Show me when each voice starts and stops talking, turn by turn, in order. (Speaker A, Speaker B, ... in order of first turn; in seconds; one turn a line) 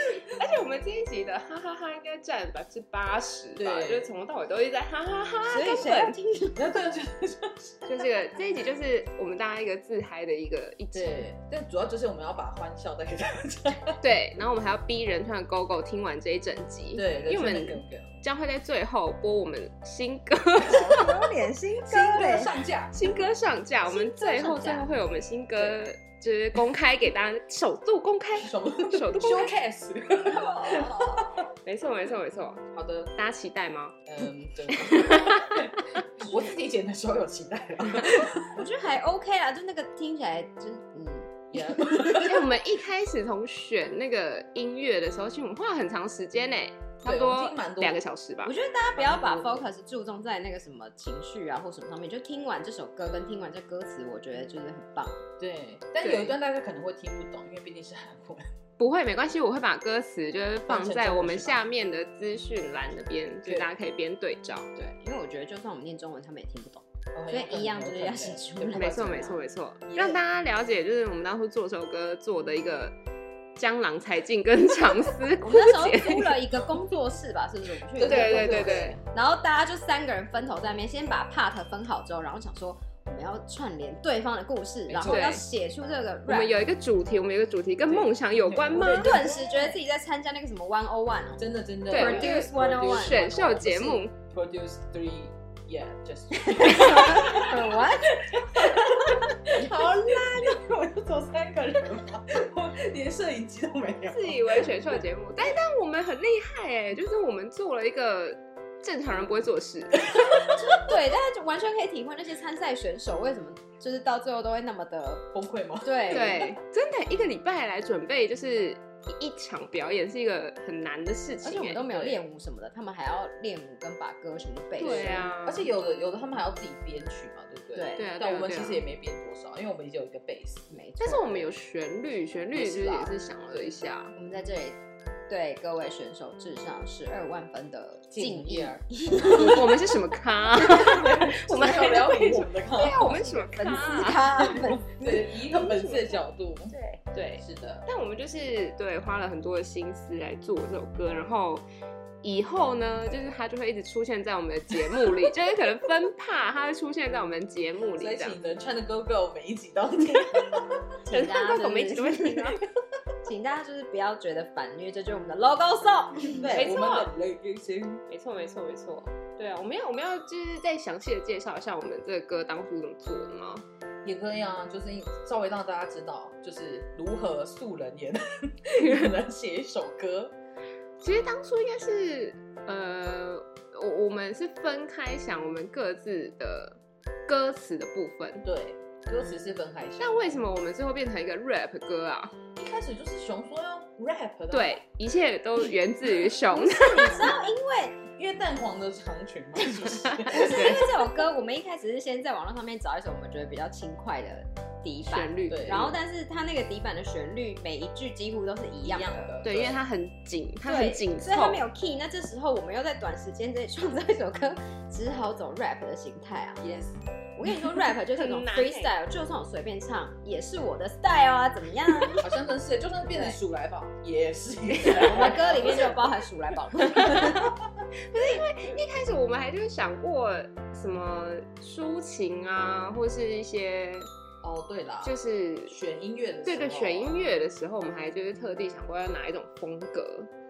Speaker A: 0.2-6.2
Speaker B: 3.5-4.1
Speaker C: 5.5-6.7
Speaker B: 6.5-8.2
Speaker A: 7.9-11.3
Speaker B: 10.9-14.0
Speaker A: 14.0-21.2
Speaker B: 16.9-18.1
Speaker C: 20.6-22.6
Speaker B: 21.8-23.0
Speaker A: 22.9-29.6
Speaker C: 23.8-24.9
Speaker B: 25.5-25.8
Speaker B: 28.4-31.5
Speaker C: 30.3-31.3
Speaker A: 31.6-32.6
Speaker B: 32.7-33.1
Speaker A: 33.1-34.0
Speaker B: 34.1-38.6
Speaker A: 34.7-35.8
Speaker C: 38.5-42.2
Speaker B: 41.5-42.4
Speaker A: 42.1-48.5
Speaker B: 47.0-48.0
Speaker C: 48.4-55.2
Speaker B: 48.9-49.7
Speaker B: 55.4-58.5
Speaker A: 56.0-56.4
Speaker A: 58.8-64.7
Speaker B: 60.7-61.6
Speaker B: 63.4-63.7
Speaker C: 64.8-69.4
Speaker B: 67.1-69.0
Speaker A: 68.7-72.9
Speaker B: 69.9-70.2
Speaker A: 73.6-76.4
Speaker C: 75.4-86.6
Speaker B: 78.0-79.0
Speaker A: 78.0-79.0
Speaker B: 84.9-85.4
Speaker A: 85.0-85.4
Speaker A: 86.3-89.2
Speaker B: 87.8-89.8
Speaker C: 88.7-94.0
Speaker B: 91.4-93.6
Speaker A: 91.9-94.1
Speaker B: 94.3-104.7
Speaker C: 96.5-98.2
Speaker C: 99.6-100.5
Speaker A: 104.1-110.4
Speaker C: 110.4-115.2
Speaker B: 115.3-116.4
Speaker C: 115.8-116.5
Speaker A: 116.1-122.2
Speaker C: 121.4-125.3
Speaker A: 124.8-125.7
Speaker B: 124.8-130.7
Speaker C: 127.7-128.1
Speaker A: 128.0-128.8
Speaker C: 130.7-131.5
Speaker A: 131.0-134.1
Speaker C: 132.5-139.8
Speaker B: 138.1-138.8
Speaker A: 139.3-144.5
Speaker B: 140.8-143.2
Speaker C: 143.0-144.9
Speaker B: 144.5-146.7
Speaker C: 145.5-146.2
Speaker A: 145.6-146.2
Speaker C: 146.7-147.0
Speaker A: 147.1-151.6
Speaker B: 147.4-147.8
Speaker A: 152.2-158.4
Speaker B: 157.9-160.8
Speaker C: 161.1-162.6
Speaker A: 161.1-162.6
Speaker C: 163.2-166.6
Speaker B: 166.3-168.0
Speaker A: 166.5-167.1
Speaker A: 168.1-173.6
Speaker B: 174.0-180.3
Speaker A: 181.0-188.4
Speaker B: 188.4-190.4
Speaker A: 190.0-192.3
Speaker B: 192.6-194.8
Speaker A: 194.5-197.3
Speaker C: 196.5-198.0
Speaker B: 198.2-200.7
Speaker A: 200.3-200.8
Speaker C: 200.3-209.4
Speaker A: 205.1-205.9
Speaker B: 205.5-206.0
Speaker B: 208.8-209.8
Speaker A: 209.4-211.6
Speaker C: 210.6-216.6
Speaker B: 216.6-217.0
Speaker C: 217.3-222.2
Speaker A: 218.1-218.9
Speaker B: 222.2-226.0
Speaker C: 223.1-223.4
Speaker A: 224.8-225.9
Speaker C: 224.9-227.4
Speaker A: 226.8-227.5
Speaker A: 228.1-234.1
Speaker B: 234.4-235.2
Speaker A: 235.0-235.8
Speaker B: 235.7-237.2
Speaker A: 236.4-240.3